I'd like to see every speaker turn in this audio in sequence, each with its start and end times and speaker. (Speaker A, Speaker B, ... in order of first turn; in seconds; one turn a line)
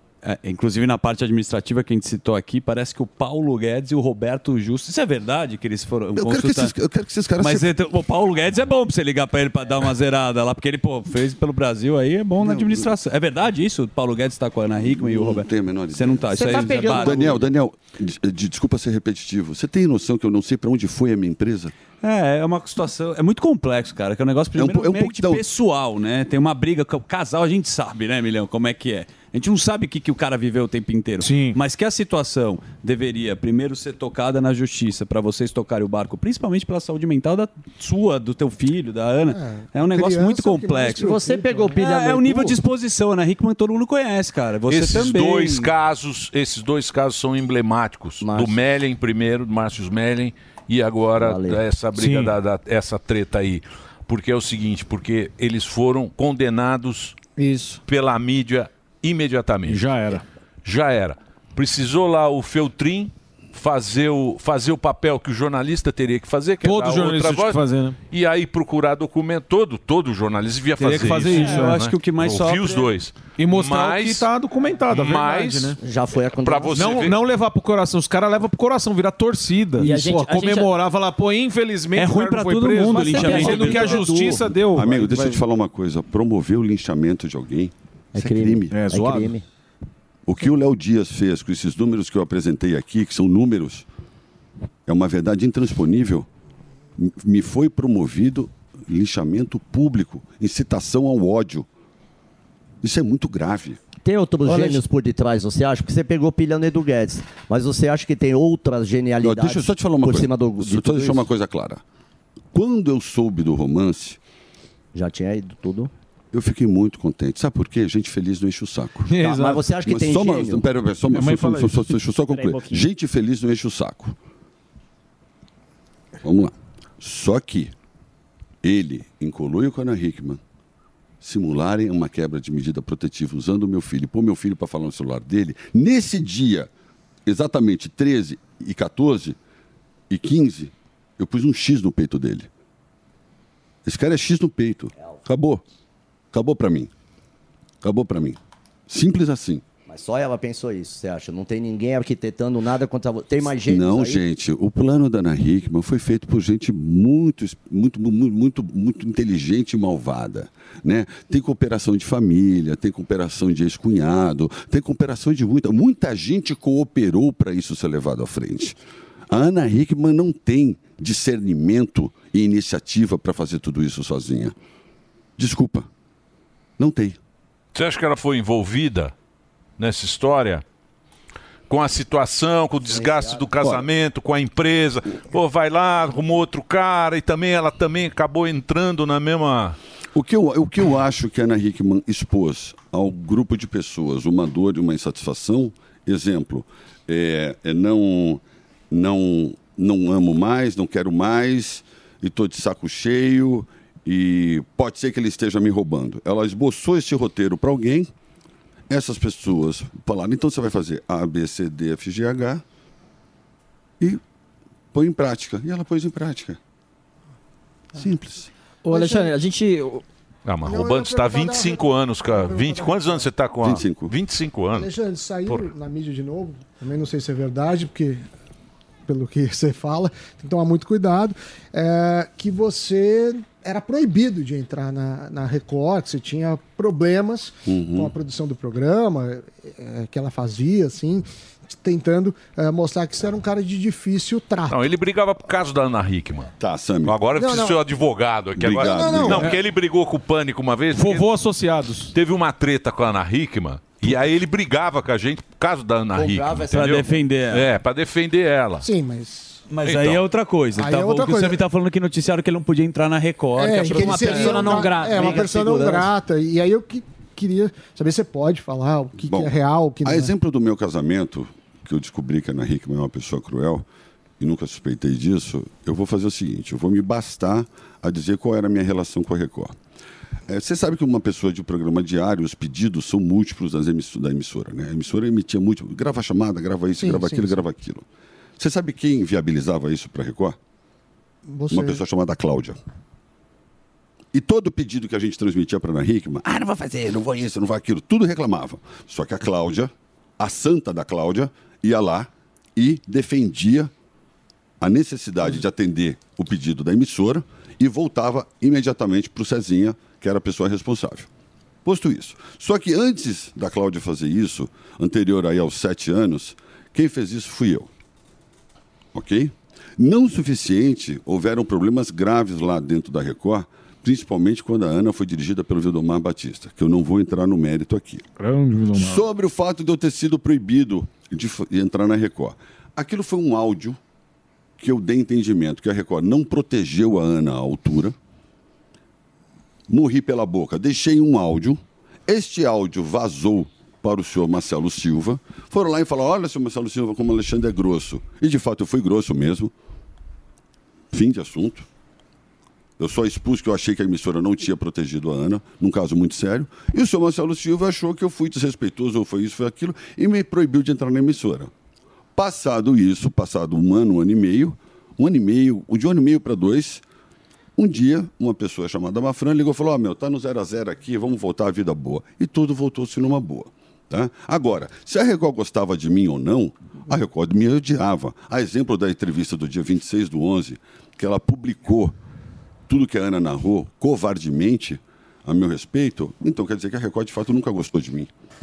Speaker A: 0.2-6.8
Speaker B: 6.2-7.7
Speaker A: 7.4-17.5
Speaker B: 12.4-12.9
Speaker B: 14.8-21.7
Speaker C: 16.3-16.9
Speaker A: 22.0-45.7
Speaker B: 24.6-25.4
Speaker D: 31.2-31.6
Speaker E: 39.3-42.1
Speaker C: 41.0-42.5
Speaker F: 44.7-57.2
Speaker C: 48.2-48.6
Speaker C: 51.2-51.6
Speaker D: 51.9-52.4
Speaker G: 57.4-57.8
Speaker F: 57.9-59.9
Speaker D: 59.6-60.2
Speaker F: 60.6-74.3
Speaker D: 66.6-68.0
Speaker D: 70.8-71.8
Speaker A: 70.8-72.9
Speaker D: 73.4-75.8
Speaker F: 74.9-75.8
Speaker C: 75.8-77.0
Speaker F: 76.4-77.2
Speaker D: 76.7-85.4
Speaker G: 79.8-80.7
Speaker A: 81.9-84.5
Speaker G: 82.9-84.1
Speaker B: 84.7-88.8
Speaker C: 88.1-89.4
Speaker D: 88.7-89.3
Speaker B: 90.2-93.9
Speaker B: 94.8-96.3
Speaker B: 97.0-101.7
Speaker B: 102.8-103.8
Speaker C: 104.0-111.3
Speaker B: 109.2-111.8
Speaker B: 112.5-114.2
Speaker C: 114.9-115.9
Speaker B: 116.3-119.1
Speaker D: 119.1-119.7
Speaker C: 119.2-120.7
Speaker B: 119.8-124.2
Speaker D: 121.1-122.8
Speaker B: 126.2-127.7
Speaker B: 128.6-130.4
Speaker B: 131.2-136.7
Speaker B: 137.2-139.4
Speaker B: 140.1-142.5
Speaker B: 143.8-145.6
Speaker B: 146.3-146.9
Speaker B: 147.8-149.6
Speaker C: 149.9-154.2
Speaker B: 153.5-168.8
Speaker B: 169.3-174.5
Speaker B: 175.4-175.9
Speaker B: 176.8-177.2
Speaker F: 177.7-179.1
Speaker F: 179.8-180.6
Speaker F: 181.7-189.8
Speaker C: 182.9-183.4
Speaker B: 190.1-208.1
Speaker B: 208.9-212.6
Speaker B: 214.9-216.6
Speaker B: 217.9-218.5
Speaker G: 218.8-220.0
Speaker E: 218.9-219.3
Speaker F: 220.4-224.9
Speaker E: 220.6-223.3
Speaker B: 223.6-224.1
Speaker E: 224.8-228.2
Speaker E: 229.1-244.8
Speaker B: 237.7-238.1
Speaker F: 244.7-246.5
Speaker B: 246.6-247.2
Speaker F: 247.0-251.3
Speaker E: 247.3-247.8
Speaker B: 248.6-249.5
Speaker E: 248.8-249.4
Speaker D: 250.9-252.1
Speaker F: 252.1-258.9
Speaker C: 256.1-256.9
Speaker A: 256.7-257.7
Speaker E: 258.8-259.6
Speaker A: 259.7-266.1
Speaker F: 259.8-260.2
Speaker E: 260.8-261.6
Speaker E: 263.6-270.3
Speaker G: 263.8-266.1
Speaker B: 269.2-269.5
Speaker B: 270.0-273.9
Speaker B: 274.4-279.8
Speaker B: 280.5-288.0
Speaker E: 287.0-287.6
Speaker B: 288.6-290.6
Speaker E: 291.5-292.0
Speaker B: 291.7-292.8
Speaker B: 294.3-303.9
Speaker B: 304.8-311.3
Speaker B: 311.8-317.9
Speaker B: 319.1-328.2
Speaker D: 328.4-329.2
Speaker B: 328.9-334.0
Speaker B: 334.8-338.1
Speaker B: 339.9-349.7
Speaker B: 351.1-351.9
Speaker B: 353.0-361.7
Speaker B: 362.3-367.0
Speaker B: 367.8-382.2
Speaker B: 382.9-388.3